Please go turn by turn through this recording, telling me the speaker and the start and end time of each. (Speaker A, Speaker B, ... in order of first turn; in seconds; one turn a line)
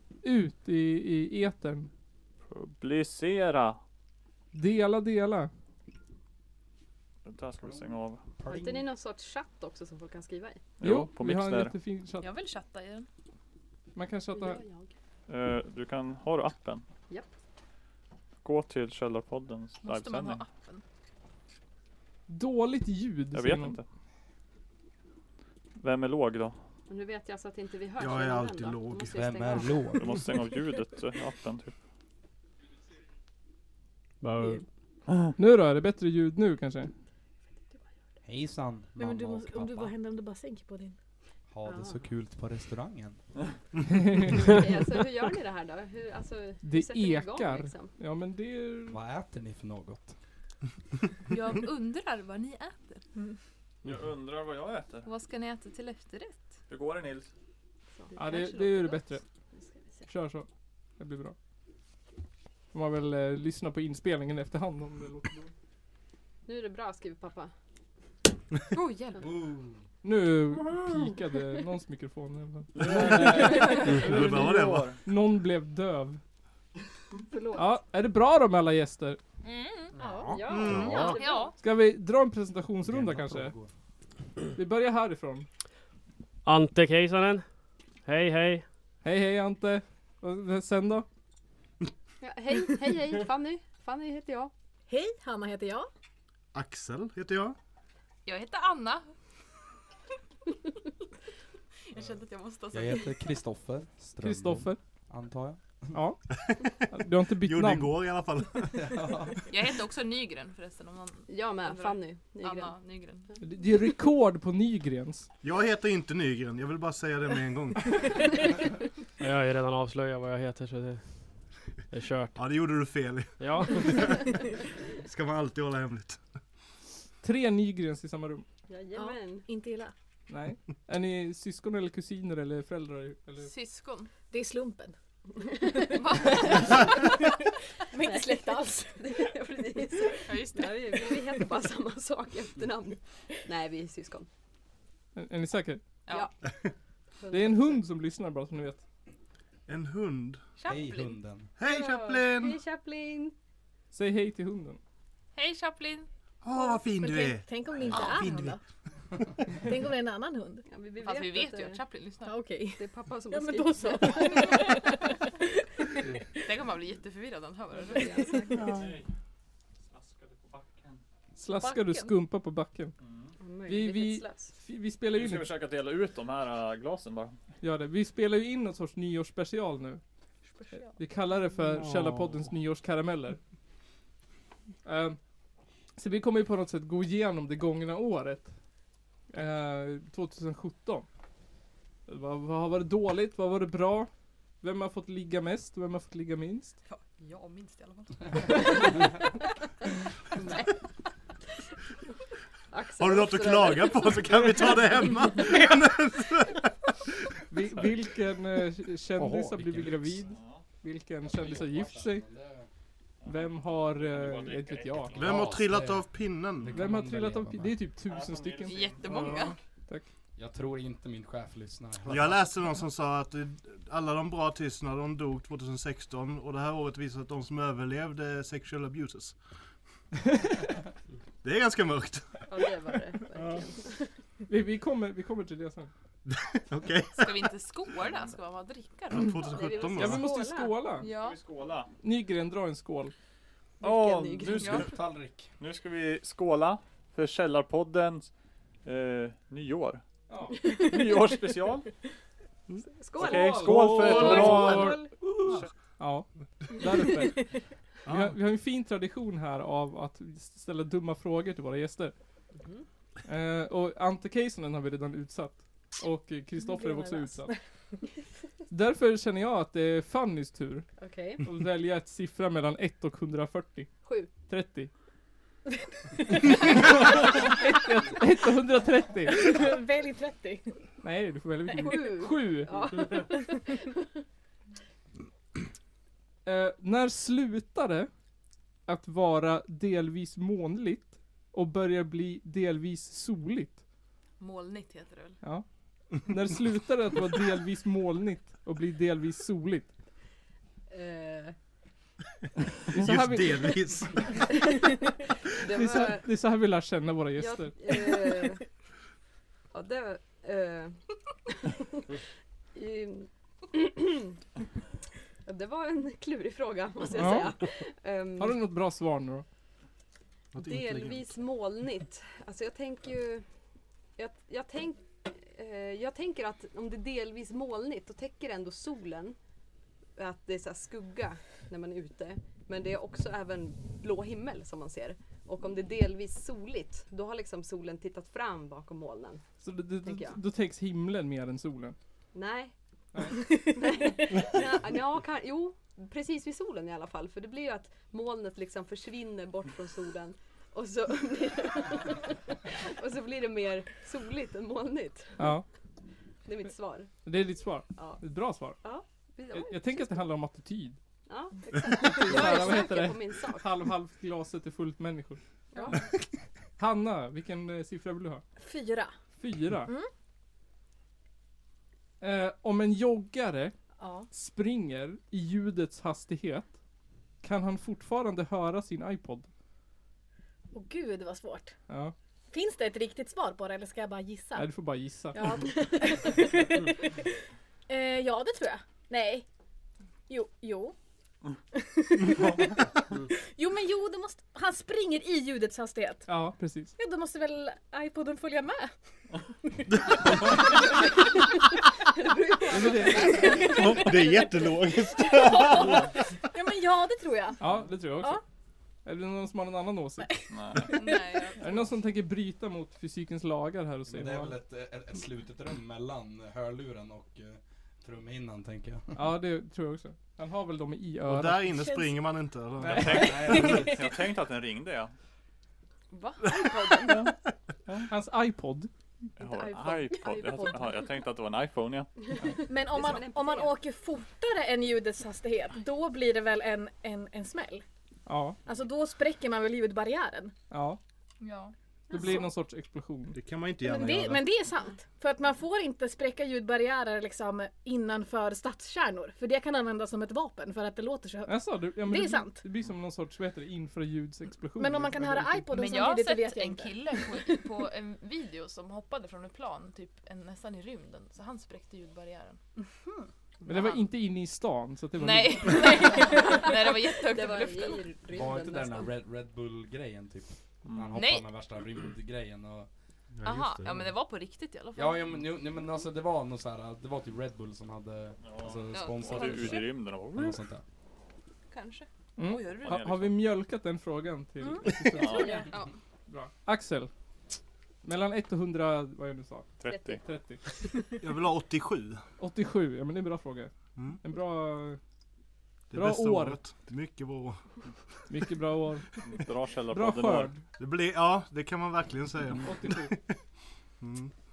Speaker A: 0.2-1.9
Speaker B: 2.5-3.8
Speaker A: 4.5-5.5
Speaker B: 7.2-8.2
Speaker C: 7.6-8.9
Speaker D: 8.5-10.6
Speaker B: 10.8-11.7
Speaker A: 10.8-12.3
Speaker E: 12.2-13.1
Speaker A: 13.9-14.6
Speaker D: 14.3-14.9
Speaker B: 15.3-16.8
Speaker B: 18.4-20.4
Speaker E: 19.8-20.8
Speaker A: 22.3-23.8
Speaker B: 23.3-23.8
Speaker B: 25.8-26.6
Speaker D: 26.9-29.9
Speaker F: 28.0-29.2
Speaker C: 29.1-30.2
Speaker B: 29.9-31.8
Speaker G: 34.2-34.6
Speaker A: 35.4-36.9
Speaker C: 38.2-40.0
Speaker H: 39.0-41.0
Speaker C: 41.5-43.2
Speaker H: 41.7-41.9
Speaker A: 43.9-44.5
Speaker D: 44.5-47.9
Speaker A: 46.6-49.0
Speaker C: 48.9-50.1
Speaker E: 51.3-53.1
Speaker B: 53.9-55.1
Speaker E: 55.0-56.4
Speaker B: 56.7-57.3
Speaker D: 58.0-60.1
Speaker A: 58.2-59.2
Speaker A: 60.1-60.5
Speaker A: 61.0-61.4
Speaker A: 62.7-65.5
Speaker D: 66.5-67.5
Speaker E: 68.7-69.2
Speaker C: 69.3-69.8
Speaker A: 70.0-76.2
Speaker B: 72.8-75.0
Speaker F: 73.2-75.0
Speaker A: 77.5-79.2
Speaker E: 79.4-79.9
Speaker H: 80.0-80.4
Speaker C: 80.1-80.8
Speaker D: 80.3-81.3
Speaker F: 80.5-81.2
Speaker E: 81.0-81.6
Speaker A: 81.6-83.5
Speaker C: 82.8-83.7
Speaker A: 84.5-85.5
Speaker G: 86.4-87.5
Speaker G: 88.0-88.7
Speaker A: 89.0-91.1
Speaker D: 92.2-94.5
Speaker H: 94.9-95.9
Speaker F: 96.5-97.6
Speaker E: 98.3-99.1
Speaker E: 101.9-103.2
Speaker C: 102.7-106.0
Speaker A: 104.2-104.8
Speaker A: 105.9-106.2
Speaker F: 106.4-106.7
Speaker A: 106.8-108.0
Speaker F: 107.4-109.1
Speaker C: 108.7-109.5
Speaker E: 109.5-113.4
Speaker D: 111.3-112.8
Speaker A: 113.4-115.3
Speaker F: 115.4-118.0
Speaker G: 119.2-122.4
Speaker F: 122.3-124.3
Speaker G: 123.4-124.3
Speaker F: 125.0-126.2
Speaker A: 127.2-128.4
Speaker D: 128.7-129.5
Speaker H: 129.0-129.9
Speaker A: 130.3-133.5
Speaker E: 133.4-134.1
Speaker H: 134.3-134.9
Speaker H: 135.6-136.8
Speaker D: 135.7-136.6
Speaker E: 136.0-136.9
Speaker H: 137.9-139.2
Speaker D: 138.0-144.3
Speaker E: 140.3-141.1
Speaker A: 145.2-145.8
Speaker D: 146.1-146.4
Speaker D: 147.2-147.8
Speaker A: 147.3-148.8
Speaker F: 149.7-150.5
Speaker E: 150.6-151.2
Speaker C: 150.7-151.5
Speaker F: 151.6-152.6
Speaker D: 151.6-153.3
Speaker A: 153.9-154.8
Speaker E: 155.3-156.1
Speaker F: 156.4-158.6
Speaker H: 156.6-158.6
Speaker E: 157.9-158.4
Speaker H: 159.6-160.6
Speaker D: 160.7-161.8
Speaker E: 161.0-162.4
Speaker H: 162.2-166.4
Speaker D: 162.8-164.9
Speaker E: 166.4-168.6
Speaker D: 167.9-168.8
Speaker H: 168.1-168.8
Speaker B: 168.6-169.1
Speaker B: 169.9-171.0
Speaker A: 171.4-172.9
Speaker D: 171.6-172.1
Speaker B: 173.0-173.3
Speaker D: 173.4-174.5
Speaker A: 173.7-175.5
Speaker B: 175.2-177.4
Speaker A: 177.6-180.0
Speaker E: 180.5-181.0
Speaker A: 180.8-183.4
Speaker G: 181.7-182.4
Speaker A: 184.8-185.2
Speaker A: 186.0-188.5
Speaker A: 189.3-191.1
Speaker A: 192.1-194.1
Speaker A: 194.6-196.8
Speaker E: 196.9-198.9
Speaker D: 200.3-200.9
Speaker D: 202.7-204.3
Speaker F: 203.0-206.7
Speaker A: 207.5-212.2
Speaker C: 209.2-210.4
Speaker B: 210.3-210.6
Speaker C: 211.2-212.7
Speaker B: 213.2-215.5
Speaker A: 213.3-215.2
Speaker F: 215.2-216.8
Speaker C: 215.2-217.8
Speaker A: 216.7-220.1
Speaker B: 218.1-219.5
Speaker E: 218.7-219.6
Speaker C: 220.4-222.5
Speaker F: 222.1-229.4
Speaker F: 231.4-232.7
Speaker D: 232.5-234.1
Speaker F: 233.3-233.7
Speaker A: 234.5-235.9
Speaker F: 236.3-237.5
Speaker E: 237.2-239.8
Speaker F: 239.1-240.3
Speaker D: 239.5-240.9
Speaker A: 239.9-241.1
Speaker E: 241.0-241.4
Speaker B: 241.2-241.9
Speaker A: 242.0-243.1
Speaker D: 243.8-244.8
Speaker B: 243.8-244.9
Speaker C: 244.6-245.5
Speaker E: 244.6-244.9
Speaker B: 245.6-248.3
Speaker B: 248.8-250.0
Speaker A: 250.3-250.6
Speaker B: 250.8-251.9
Speaker D: 252.9-255.2
Speaker B: 253.2-255.0
Speaker A: 253.2-255.0
Speaker F: 253.9-255.7
Speaker A: 256.0-262.1
Speaker F: 258.1-258.4
Speaker A: 263.3-267.6
Speaker H: 266.7-267.5
Speaker A: 268.7-270.9
Speaker D: 271.0-271.4
Speaker A: 271.4-274.9
Speaker D: 274.0-274.3
Speaker A: 277.7-279.5
Speaker H: 279.3-280.8
Speaker A: 281.0-282.7
Speaker D: 281.8-283.5
Speaker H: 283.1-283.7
Speaker A: 286.4-288.1
Speaker A: 288.9-293.8
Speaker E: 294.4-295.4
Speaker A: 295.4-299.9
Speaker D: 300.9-301.6
Speaker A: 302.9-304.2
Speaker F: 302.9-304.4
Speaker D: 305.5-306.3
Speaker A: 305.7-308.0
Speaker D: 307.4-308.6
Speaker D: 309.7-312.1
Speaker D: 312.7-314.4
Speaker D: 315.4-318.6
Speaker A: 317.1-317.5
Speaker A: 318.4-319.4
Speaker F: 320.5-321.3
Speaker D: 320.6-323.4
Speaker D: 324.2-329.4
Speaker D: 330.2-339.4
Speaker A: 339.6-342.0
Speaker D: 340.1-340.4
Speaker D: 342.3-342.7
Speaker A: 343.1-343.4
Speaker H: 343.4-344.5
Speaker D: 343.6-355.5
Speaker A: 355.4-355.6
Speaker D: 356.4-357.1
Speaker A: 357.2-358.8
Speaker D: 357.9-358.2
Speaker D: 358.8-360.2
Speaker A: 359.5-361.0
Speaker D: 361.3-363.7
Speaker H: 361.7-362.3
Speaker A: 361.8-365.4
Speaker A: 366.8-368.4
Speaker A: 369.4-369.9
Speaker A: 372.2-373.8
Speaker H: 374.0-374.3
Speaker A: 374.3-376.7
Speaker A: 377.4-379.5
Speaker H: 380.7-381.7
Speaker A: 381.9-382.1
Speaker H: 382.5-384.7
Speaker A: 384.6-385.4
Speaker H: 385.3-387.3
Speaker H: 387.9-389.4
Speaker H: 390.3-390.9
Speaker H: 391.7-396.3
Speaker A: 396.3-396.9
Speaker H: 397.0-398.9
Speaker H: 399.7-401.0
Speaker D: 402.1-404.5
Speaker H: 402.7-407.6
Speaker A: 402.7-403.5
Speaker F: 403.7-406.1
Speaker A: 407.6-408.4
Speaker A: 409.1-410.9
Speaker H: 410.2-411.5
Speaker B: 410.5-411.0
Speaker E: 410.9-411.7
Speaker A: 411.6-414.6
Speaker C: 414.1-419.2
Speaker A: 419.1-421.7
Speaker F: 421.3-423.6
Speaker H: 421.7-422.2
Speaker A: 422.8-423.2
Speaker B: 422.9-425.1
Speaker C: 422.9-424.0
Speaker H: 423.3-424.1
Speaker E: 426.1-427.3
Speaker F: 427.0-427.3
Speaker B: 427.1-427.3
Speaker A: 428.1-428.9
Speaker B: 429.4-432.1
Speaker E: 429.7-430.8
Speaker H: 432.7-437.8
Speaker D: 432.7-433.8
Speaker A: 438.3-438.6
Speaker H: 438.7-440.5
Speaker A: 440.7-441.0
Speaker E: 441.4-442.4
Speaker A: 442.1-443.4
Speaker H: 442.1-442.4
Speaker F: 443.3-444.5
Speaker H: 443.8-452.6
Speaker A: 451.5-455.6
Speaker H: 454.8-457.6
Speaker E: 455.7-462.6
Speaker E: 463.6-464.1
Speaker A: 463.7-466.0
Speaker E: 465.2-468.1
Speaker H: 465.7-466.8
Speaker D: 467.3-469.1
Speaker C: 468.3-472.9
Speaker E: 471.1-471.5
Speaker F: 473.4-474.0
Speaker E: 473.4-475.3
Speaker C: 475.0-480.8
Speaker B: 478.4-480.6
Speaker E: 478.9-479.9
Speaker E: 481.7-483.1
Speaker A: 482.4-485.5
Speaker B: 482.8-483.3
Speaker H: 484.6-485.6
Speaker B: 485.2-485.7
Speaker E: 485.2-485.9
Speaker D: 485.2-485.6
Speaker A: 486.3-487.1
Speaker A: 488.0-490.6
Speaker B: 489.8-490.2
Speaker D: 489.9-491.0
Speaker F: 491.2-492.2
Speaker A: 492.4-495.0
Speaker F: 495.9-497.6
Speaker A: 495.9-496.6
Speaker A: 498.3-499.1
Speaker B: 499.2-500.5
Speaker A: 499.9-500.6
Speaker F: 500.8-503.4
Speaker A: 502.6-503.2
Speaker F: 504.0-504.3